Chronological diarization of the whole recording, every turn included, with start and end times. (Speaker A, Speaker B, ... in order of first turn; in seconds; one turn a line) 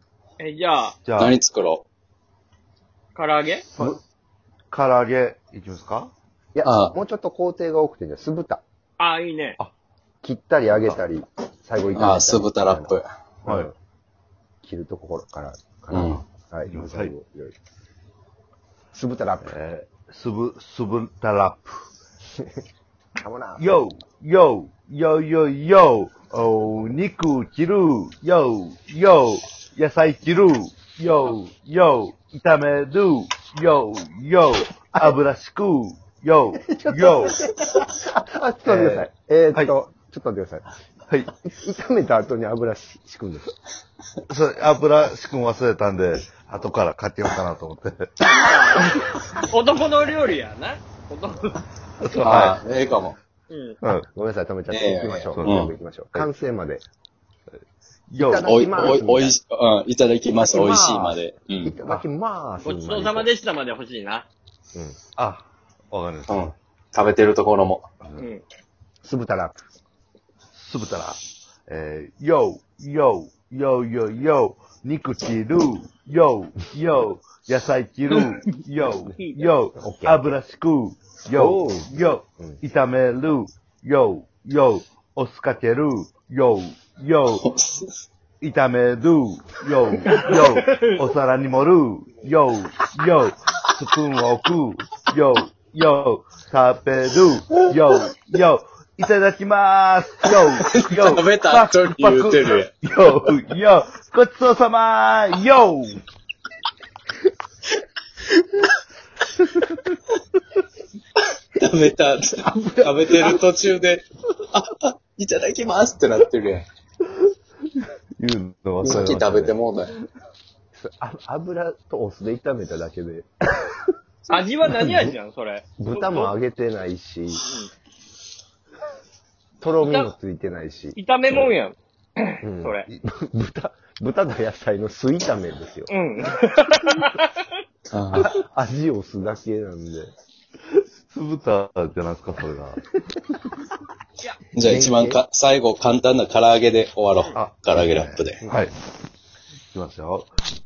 Speaker A: 0.4-1.0
Speaker B: 1.1-1.4
Speaker C: 1.2-1.8
Speaker A: 3.1-3.6
Speaker B: 4.7-6.1
Speaker D: 6.5-8.6
Speaker C: 6.6-7.0
Speaker A: 9.0-9.6
Speaker D: 10.2-13.7
Speaker C: 12.0-13.1
Speaker D: 14.6-17.6
Speaker C: 15.9-16.2
Speaker B: 16.7-17.1
Speaker D: 18.9-19.5
Speaker B: 19.4-21.8
Speaker D: 23.2-23.8
Speaker B: 23.6-37.4
Speaker D: 36.6-40.7
Speaker B: 38.7-39.7
Speaker D: 41.4-43.5
Speaker B: 44.3-48.1
Speaker A: 48.4-51.6
Speaker B: 52.0-52.6
Speaker C: 52.1-53.2
Speaker A: 53.5-53.8
Speaker B: 53.8-54.1
Speaker D: 54.1-56.8
Speaker C: 54.7-55.7
Speaker B: 55.4-56.3
Speaker B: 58.1-58.5
Speaker D: 58.2-59.4
Speaker C: 58.4-62.0
Speaker D: 60.4-63.3
Speaker A: 62.6-64.3
Speaker B: 65.2-66.5
Speaker C: 66.3-67.9
Speaker A: 68.2-68.4
Speaker D: 69.0-69.7
Speaker B: 70.5-87.5
Speaker A: 79.2-79.5
Speaker D: 79.8-80.4
Speaker D: 81.3-82.6
Speaker C: 87.5-87.8
Speaker B: 88.4-106.0
Speaker A: 90.3-90.9
Speaker C: 100.6-102.7
Speaker C: 111.6-116.7
Speaker D: 112.5-113.2
Speaker B: 118.2-119.5
Speaker C: 118.8-120.0
Speaker D: 120.8-123.3
Speaker A: 124.3-126.3
Speaker D: 124.7-125.2
Speaker D: 125.8-127.4
Speaker A: 127.4-127.7
Speaker D: 129.6-131.5
Speaker A: 129.8-130.1
Speaker A: 130.9-132.9
Speaker D: 132.4-135.9
Speaker A: 135.9-137.3
Speaker C: 137.9-138.3
Speaker D: 138.3-140.1
Speaker B: 141.1-143.0
Speaker C: 144.5-148.4
Speaker D: 144.6-145.2
Speaker B: 147.3-148.7
Speaker B: 149.7-150.3